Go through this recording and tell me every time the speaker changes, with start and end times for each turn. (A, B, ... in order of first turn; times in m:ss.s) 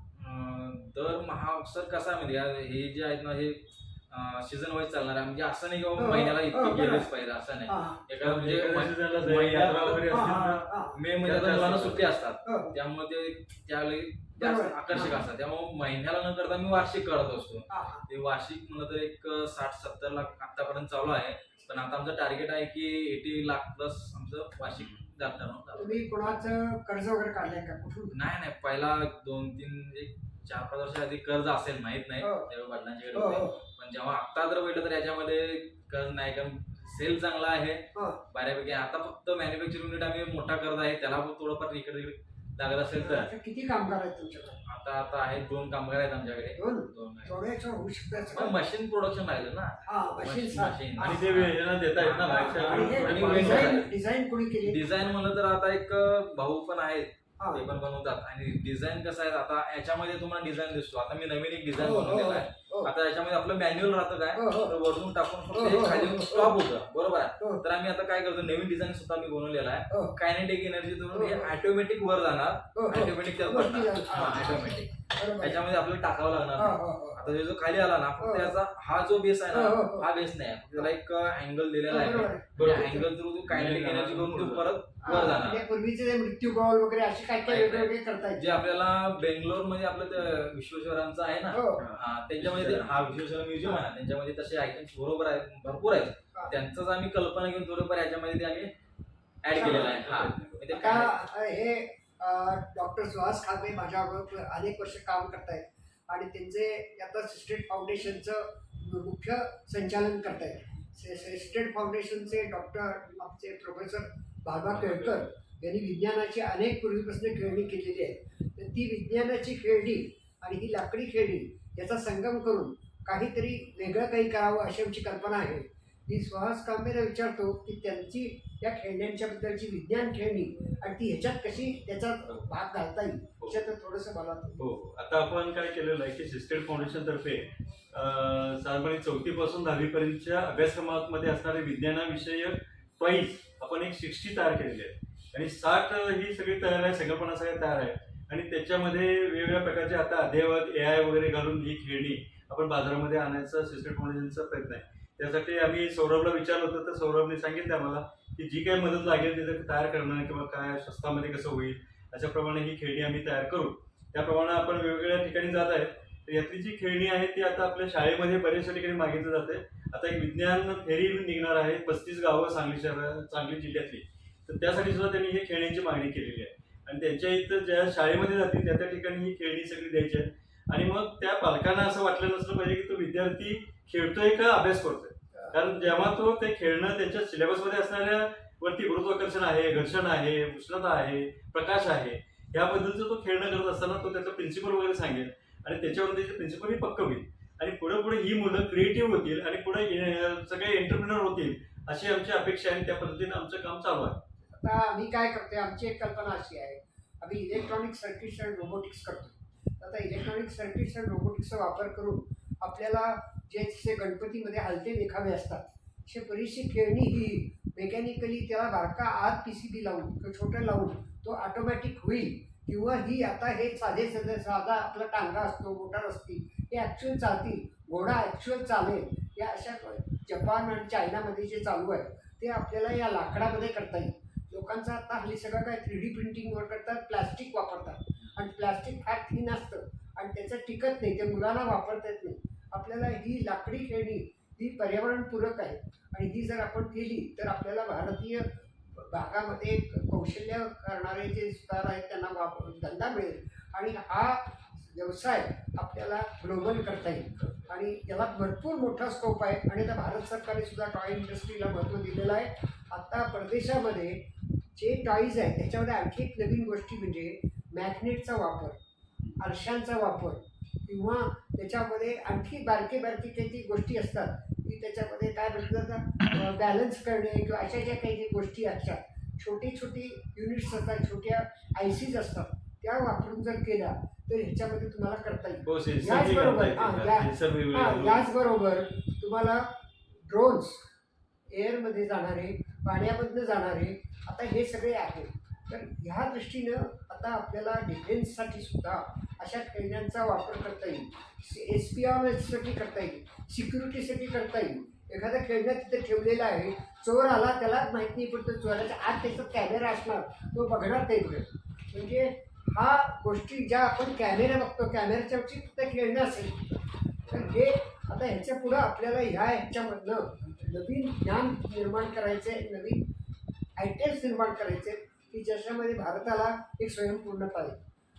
0:00.2-0:10.1 A
0:06.0-0:07.1 B
0:07.7-0:08.0 B
0:08.2-0:10.7 C
0:10.1-0:11.0 B
0:10.9-0:26.4 A
0:11.2-0:12.1 C
0:12.4-0:12.7 B
0:14.4-0:15.2 B
0:17.7-0:18.0 B
0:25.8-0:28.2 B
0:28.1-0:43.3 A
0:32.2-0:32.5 B
0:33.1-0:33.6 B
0:37.9-0:38.2 B
0:43.0-0:44.6 B
0:44.6-0:47.3 A
0:46.6-0:48.6 B
0:48.3-0:53.9 A
0:49.8-0:51.3 B
0:51.0-0:53.8 C
0:52.3-0:54.8 B
0:54.6-1:25.6 A
0:57.4-0:57.7 B
1:01.8-1:02.9 B
1:04.3-1:04.7 B
1:05.5-1:06.5 B
1:09.9-1:10.2 B
1:11.1-1:11.5 B
1:12.8-1:15.6 B
1:16.6-1:17.3 B
1:18.2-1:18.5 B
1:19.5-1:20.1 B
1:21.9-1:23.1 B
1:22.6-1:22.9 C
1:23.5-1:24.7 C
1:25.0-1:28.8 B
1:27.4-1:38.7 A
1:31.5-1:31.8 B
1:31.8-1:33.0 C
1:39.4-1:41.1 A
1:39.5-1:40.0 B
1:39.6-1:40.8 C
1:40.7-2:14.6 B
1:54.7-1:55.3 C
2:14.6-3:24.2 C
3:05.3-3:06.1 B
3:24.4-4:24.2 B
4:24.8-4:28.8 B
4:29.4-4:49.7 B
4:45.7-4:48.3 C
4:50.3-4:50.8 B
4:51.5-5:23.0 B
5:23.8-5:27.8 B